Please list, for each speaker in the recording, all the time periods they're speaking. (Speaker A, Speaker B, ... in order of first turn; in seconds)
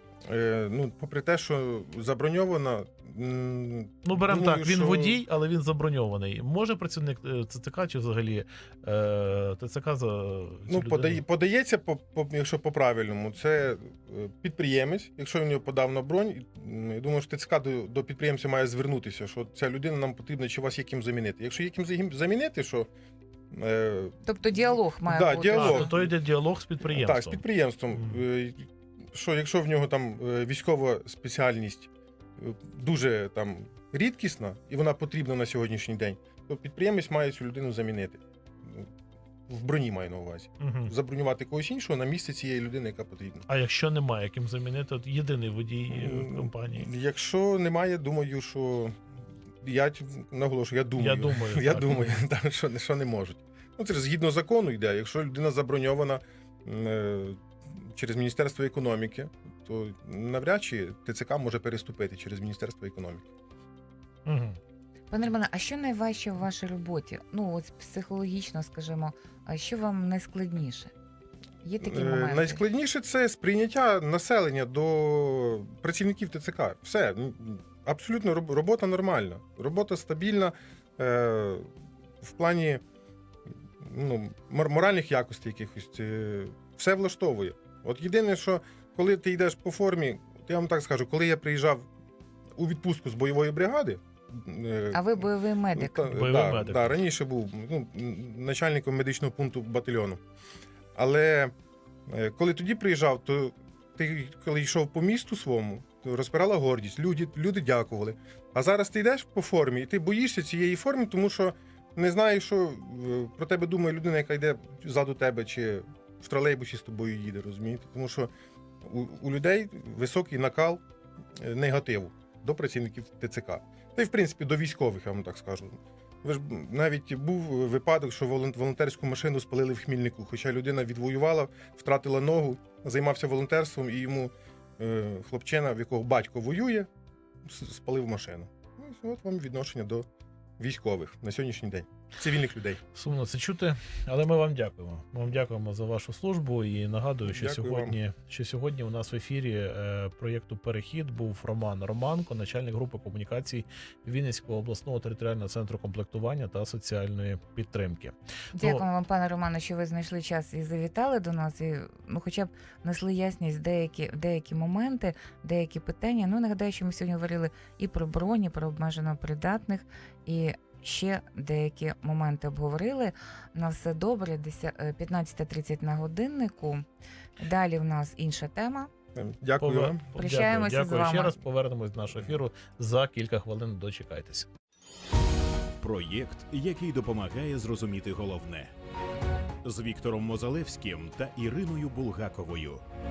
Speaker A: 0.3-5.2, 10.7-22.9, 23.5-26.1, 26.9-38.9, 39.5-43.5, 45.9-49.0, 49.6-63.3, 71.8-81.7, 82.2-82.8, 83.8-91.9, 92.6-100.2, 101.0-101.5, 102.1-118.3, 118.8-120.8, 121.4-136.9, 137.4-140.1, 140.6-142.8, 147.2-148.0, 179.2-180.1
Speaker B: 4.0-11.2, 25.5-27.4, 40.6-40.9, 43.5-46.9, 51.0-52.2, 64.2-64.6, 96.1-97.0, 142.9-158.8, 179.6-184.5
Speaker C: 24.2-25.9, 65.1-70.9, 71.6-72.6, 94.9-96.1, 158.6-176.8, 177.4-178.9, 180.1-181.4
Speaker D: 185.8-188.7, 189.6-192.8